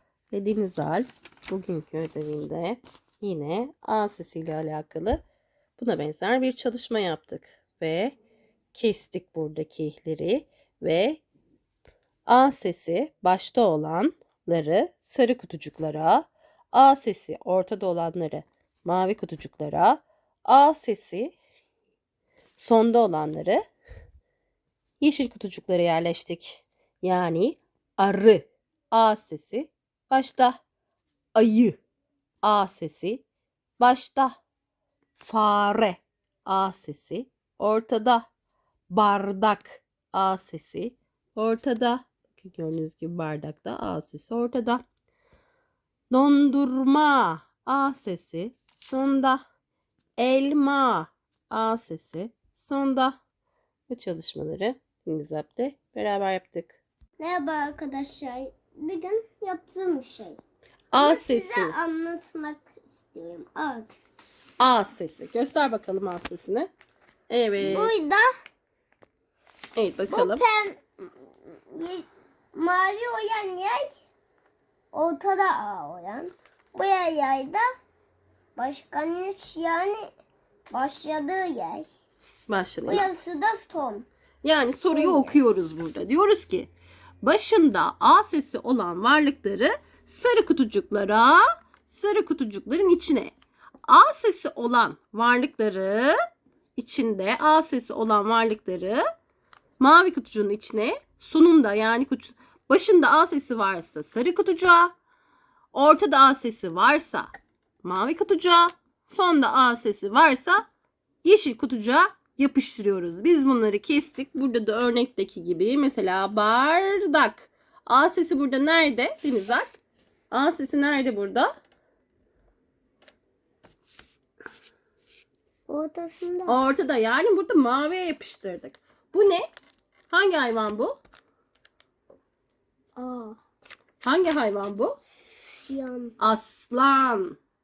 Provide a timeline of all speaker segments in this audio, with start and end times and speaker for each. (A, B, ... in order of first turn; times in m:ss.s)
0:00.3-0:05.2 A
0:05.8-0:08.2 A
0:08.7-0:11.2 A
0:12.3-0:21.4 A
0:22.6-0:23.6 A
0:25.0-0:30.6 A
0:31.3-0:31.8 A
0:32.4-0:33.2 A
0:33.8-0:34.4 A
0:35.2-0:38.3 A
0:38.9-0:44.8 A
0:46.1-0:49.4 A
0:50.2-0:53.2 A
0:53.9-0:56.8 A
0:57.2-1:00.4 B
1:00.9-1:01.7 A
1:01.0-1:04.0 B
1:04.6-1:06.7 A
1:07.3-1:07.9 A
1:07.6-1:08.3 B
1:09.8-1:10.4 A
1:10.1-1:10.8 B
1:11.5-1:13.9 B
1:14.9-1:17.6 B
1:18.6-1:20.1 B
1:20.7-1:21.8 B
1:22.5-1:23.1 A
1:22.8-1:24.1 B
1:24.4-1:26.7 A
1:24.9-1:25.4 B
1:27.2-1:33.3 A
1:33.9-1:36.1 A
1:36.8-1:39.0 A
1:39.8-1:44.9 A
1:45.7-1:47.3 A
1:47.8-1:50.6 A
1:51.2-1:59.8 A
2:00.3-2:01.5 A
2:05.7-2:06.6 B
2:06.5-2:09.4 A
2:10.1-2:11.0 A
2:13.0-2:13.4 B
2:14.0-2:15.0 A
2:15.5-2:16.1 B
2:16.2-2:17.4 A